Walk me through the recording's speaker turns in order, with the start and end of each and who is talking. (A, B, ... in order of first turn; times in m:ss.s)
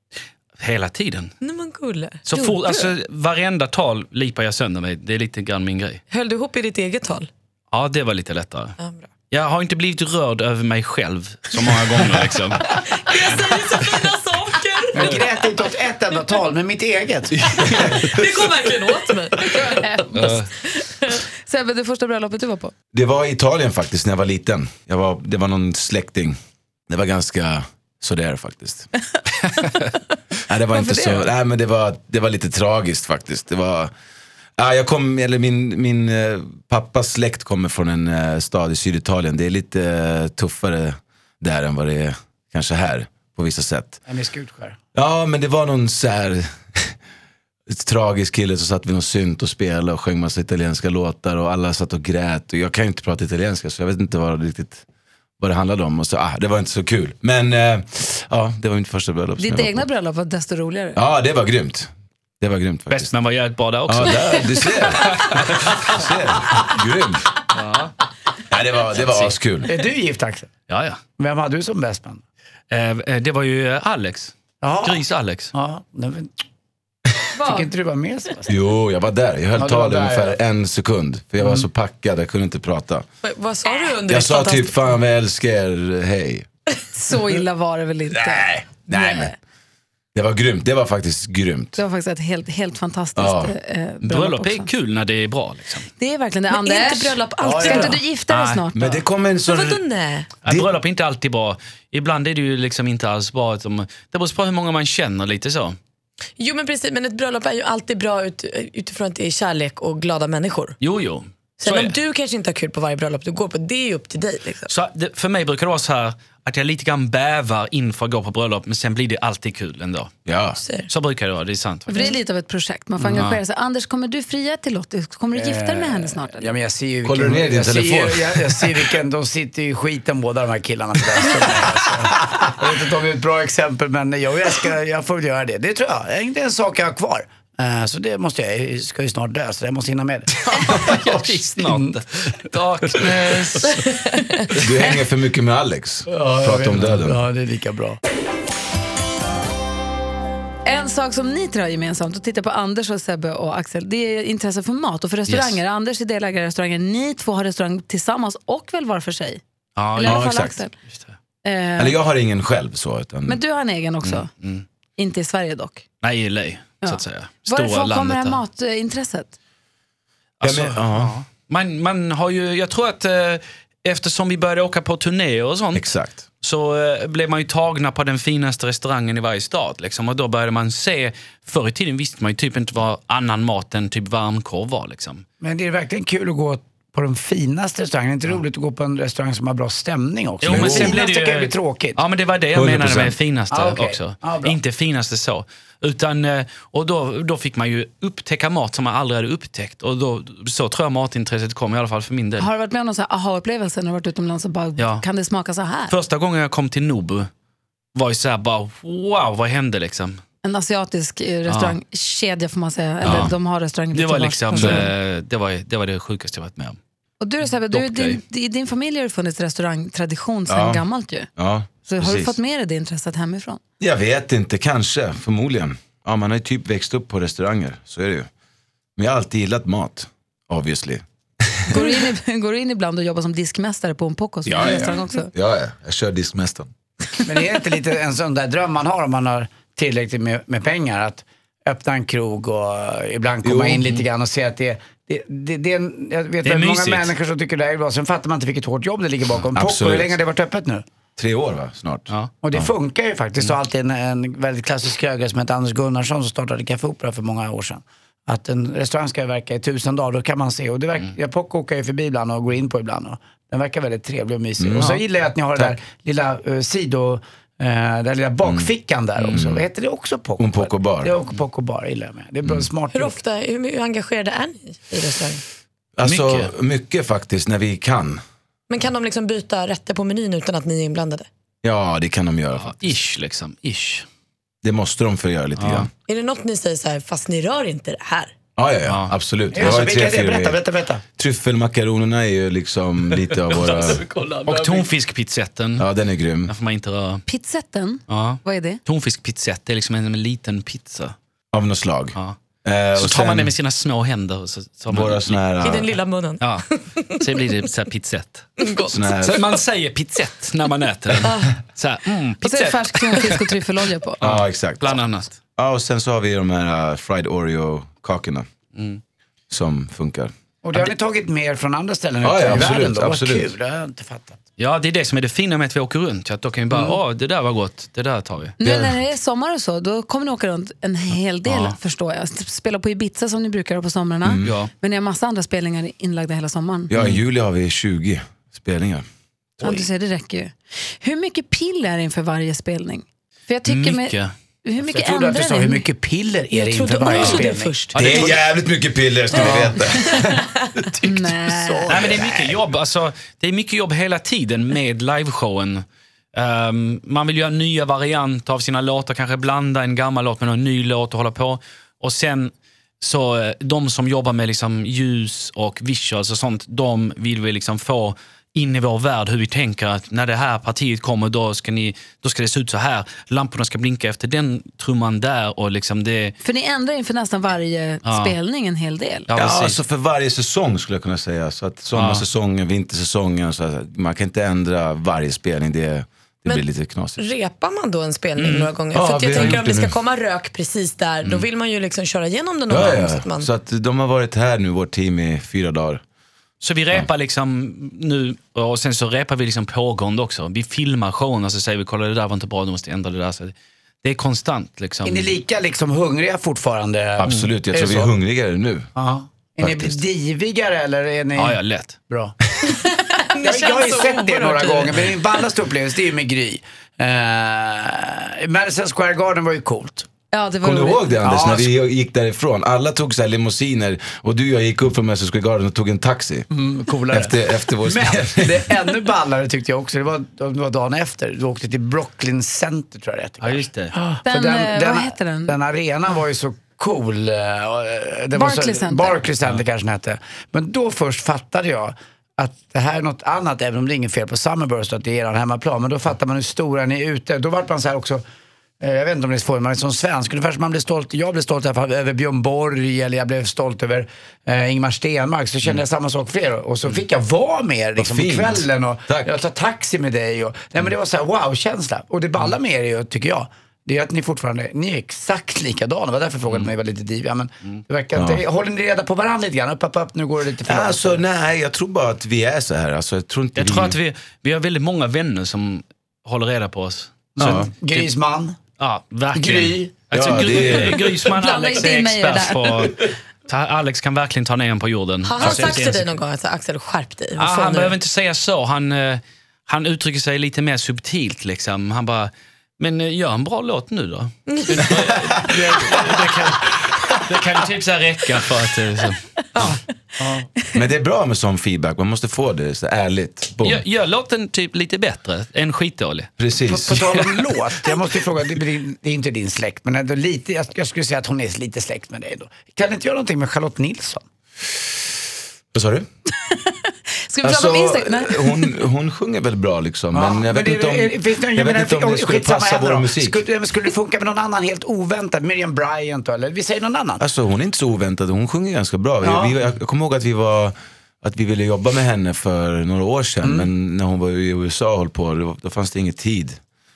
0:00.6-0:01.3 A
0:01.4-0:02.3 B
0:02.3-0:06.0 A
0:06.1-0:07.3 B
0:07.7-0:08.8 A
0:08.8-0:09.1 B
0:09.3-0:12.8 A
0:12.7-0:15.2 B
0:14.9-0:18.2 C
0:18.0-0:19.8 B
0:19.5-0:22.7 D
0:20.1-0:20.5 A
0:22.9-0:26.4 E
0:26.9-0:28.9 E
0:30.5-0:33.9 E
0:30.7-0:31.3 D
0:34.6-0:44.0 E
0:44.1-0:44.8 C
0:45.0-0:47.0 E
0:47.7-0:54.8 E
0:55.4-0:59.9 E
0:59.4-1:01.0 D
1:01.0-1:03.1 E
1:02.9-1:05.9 A
1:03.9-1:07.3 E
1:07.5-1:08.0 A
1:08.5-1:09.7 E
1:09.0-1:09.4 A
1:09.7-1:10.5 C
1:10.7-1:11.0 A
1:11.2-1:12.2 C
1:12.7-1:15.5 A
1:14.6-1:16.3 C
1:17.3-1:17.7 D
1:17.4-1:18.5 C
1:18.5-1:23.0 E
1:19.6-1:20.4 C
1:21.4-1:21.6 C
1:23.2-1:24.8 B
1:24.1-1:26.5 E
1:26.9-1:29.4 D
1:28.1-1:29.3 E
1:30.1-1:31.8 E
1:31.8-1:34.7 D
1:33.2-1:33.5 E
1:34.0-1:35.9 A
1:36.0-1:39.0 D
1:36.5-1:38.0 B
1:37.4-1:37.9 C
1:38.3-1:38.6 A
1:38.7-1:39.8 E
1:39.5-1:40.3 B
1:40.4-1:45.8 A
1:46.4-1:50.8 B
1:50.8-1:52.0 A
1:51.6-1:54.7 B
1:54.7-2:00.2 A
2:00.3-2:00.6 E
2:00.6-2:00.9 B
2:00.9-2:02.0 A
2:01.9-2:06.5 D
2:03.1-2:03.4 A
2:05.3-2:22.0 C
2:07.0-2:08.9 E
2:20.6-2:23.9 A
2:23.8-2:24.2 B
2:24.6-2:27.2 E
2:26.1-2:28.0 C
2:30.6-2:39.4 D
2:35.3-2:35.6 A
2:39.8-2:40.4 A
2:40.0-2:40.7 D
2:40.0-2:40.6 E
2:40.9-2:41.1 A
2:41.4-2:42.0 D
2:41.8-2:43.4 E
2:43.3-2:44.3 D
2:44.0-2:44.6 A
2:45.0-2:45.8 D
2:46.0-2:48.4 A
2:46.8-2:49.3 D
2:50.4-3:05.2 A
2:50.4-2:51.2 E
2:55.7-2:56.2 E
3:05.4-3:12.0 C
3:10.4-3:22.5 A
3:10.4-3:11.0 E
3:12.5-3:13.2 E
3:13.5-3:14.6 C
3:22.4-3:25.9 D
3:24.8-3:25.0 A
3:25.9-3:27.3 A
3:28.0-3:30.2 A
3:30.4-3:34.9 D
3:31.5-3:31.8 A
3:33.0-3:33.4 A
3:33.0-3:33.3 E
3:33.9-3:36.8 A
3:34.6-3:34.9 E
3:37.2-3:41.3 D
3:37.7-3:38.2 A
3:40.5-3:40.8 E
3:41.4-3:42.4 E
3:41.9-3:43.6 D
3:43.8-3:48.3 E
3:49.0-3:51.8 E
3:51.7-3:55.3 D
3:54.4-3:56.7 E
3:57.3-4:10.8 C
4:03.4-4:04.0 E
4:06.4-4:07.1 A
4:09.5-4:10.2 E
4:11.2-4:12.7 E
4:12.4-4:33.2 C
4:24.6-4:25.0 E
4:28.4-4:28.7 E
4:29.3-4:29.6 E
4:30.4-4:31.1 E
4:32.9-4:35.4 B
4:36.0-4:38.2 E
4:36.0-4:36.5 A
4:38.7-4:41.3 B
4:41.6-4:42.9 E
4:42.6-4:44.1 A
4:44.6-4:45.9 E
4:45.6-4:45.9 A
4:46.1-4:48.3 B
4:48.6-4:50.6 E
4:48.9-4:49.1 A
4:49.5-4:51.0 C
4:51.2-4:54.0 E
4:53.6-4:54.9 C
4:54.4-4:55.9 A
4:55.8-4:56.5 E
4:56.5-4:57.2 A
4:57.3-4:58.8 D
4:58.1-5:01.2 A
5:01.5-5:03.5 E
5:03.0-5:05.4 A
5:04.9-5:05.9 E
5:05.6-5:07.3 B
5:06.4-5:08.6 A
5:08.6-5:09.0 B
5:08.9-5:09.5 E
5:09.2-5:13.5 A
5:11.2-5:11.6 B
5:12.4-5:14.2 D
5:14.2-5:15.3 A
5:14.2-5:15.0 E
5:15.6-5:18.5 E
5:18.8-5:19.0 A
5:19.5-5:20.8 E
5:20.6-5:24.4 C
5:22.2-5:23.5 E
5:24.6-5:28.6 A
5:26.7-5:27.0 C
5:28.6-5:36.9 D
5:28.6-5:29.0 E
5:31.5-5:31.8 A
5:34.2-5:34.6 E
5:34.4-5:34.7 A
5:36.9-5:39.0 E
5:39.6-5:45.8 D
5:43.7-5:44.3 A
5:44.8-5:48.3 C
5:46.5-5:48.2 B
5:47.1-5:47.4 A
5:48.0-5:48.4 A
5:48.0-5:50.3 E
5:49.4-5:52.6 C
5:50.4-5:50.6 B
5:51.0-5:51.9 D
5:51.9-6:16.4 A
6:16.4-6:19.3 D
6:18.0-6:18.4 A
6:19.3-6:19.8 A
6:19.4-6:27.2 E
6:21.9-6:22.2 A
6:27.2-6:33.5 B
6:28.4-6:28.7 A
6:28.9-6:30.0 E
6:32.7-6:36.0 E
6:36.6-6:45.4 A
6:45.0-6:48.1 C
6:47.2-6:48.9 E
6:49.0-6:51.6 C
6:49.6-6:50.0 E
6:51.4-6:52.0 A
6:52.1-6:52.4 C
6:52.6-6:55.0 B
6:53.4-7:00.1 C
7:00.3-7:01.2 D
7:00.6-7:06.5 E
7:01.2-7:01.7 C
7:06.5-7:28.2 C
7:07.1-7:08.8 E
7:13.4-7:13.9 A
7:14.2-7:15.6 D
7:18.3-7:19.2 D
7:28.8-7:51.2 C
7:38.0-7:39.3 E
7:48.2-7:48.4 E
7:50.6-7:54.0 E
7:53.6-7:57.3 A
7:57.4-7:58.6 C
7:57.4-7:57.7 E
7:58.8-8:06.1 A
7:59.3-8:00.8 C
8:00.1-8:01.2 E
8:01.3-8:02.8 D
8:05.2-8:08.0 B
8:05.4-8:05.7 E
8:07.4-8:19.8 A
8:14.5-8:14.9 B
8:15.5-8:16.0 C
8:20.2-8:20.5 C
8:20.7-8:23.8 E
8:23.6-8:26.3 A
8:26.4-8:27.2 E
8:26.7-8:34.2 C
8:27.0-8:27.2 A
8:35.7-8:36.1 E
8:36.5-8:36.8 D
8:37.3-8:38.7 D
8:37.4-8:43.4 E
8:40.1-8:47.2 C
8:47.2-8:56.6 E
8:49.2-8:49.6 C
8:53.4-8:53.7 C